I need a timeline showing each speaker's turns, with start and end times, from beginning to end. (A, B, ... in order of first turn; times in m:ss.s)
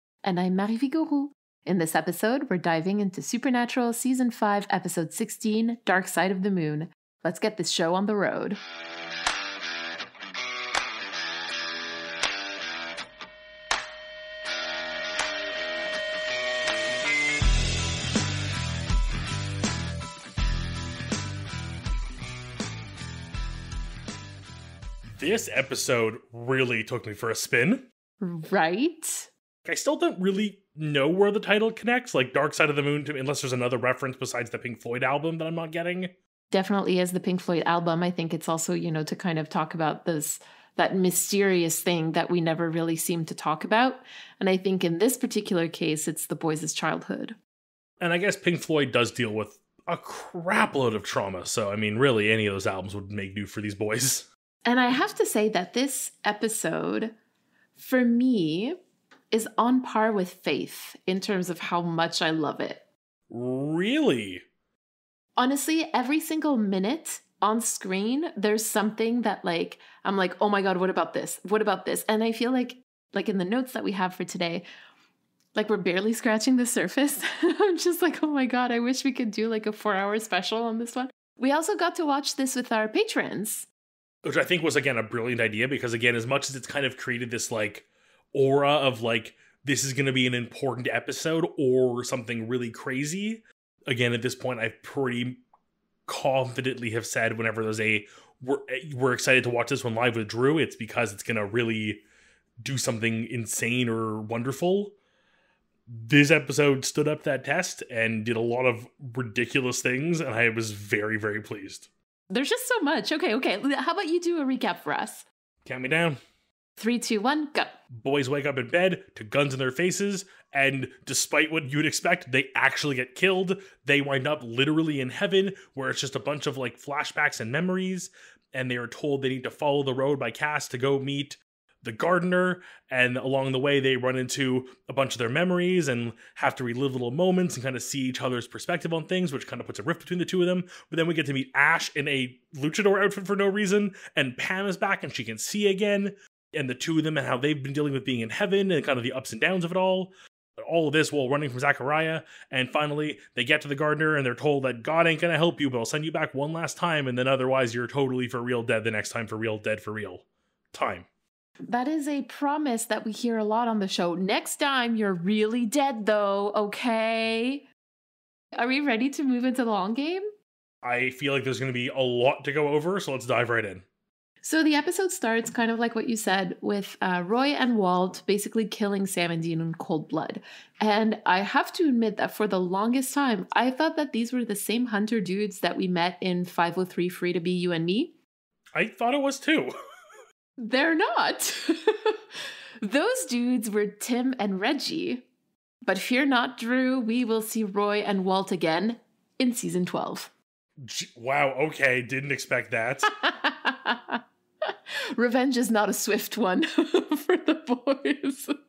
0:00.2-0:08.6 A
0:25.2-0:27.9 B
0:28.2-0:29.3 A
0:29.6-0:36.1 B
0:36.5-0:47.4 A
0:48.0-0:54.3 B
0:54.7-0:57.1 A
0:57.8-0:58.8 A
0:59.3-1:02.8 A
1:03.3-1:04.4 B
1:05.4-1:14.7 A
1:15.5-1:23.7 A
1:24.2-1:35.4 B
1:36.1-1:42.0 B
1:42.6-1:45.0 B
1:45.9-1:51.9 B
1:52.3-1:55.2 A
1:55.6-1:56.2 B
1:56.8-1:57.8 A
1:57.9-2:41.1 B
2:41.7-2:47.6 A
2:48.6-2:50.2 A
2:50.8-2:53.8 B
2:54.4-3:08.1 A
3:08.8-3:09.7 B
3:10.6-3:15.3 A
3:15.8-3:20.3 A
3:20.8-3:23.1 B
3:23.1-3:28.5 A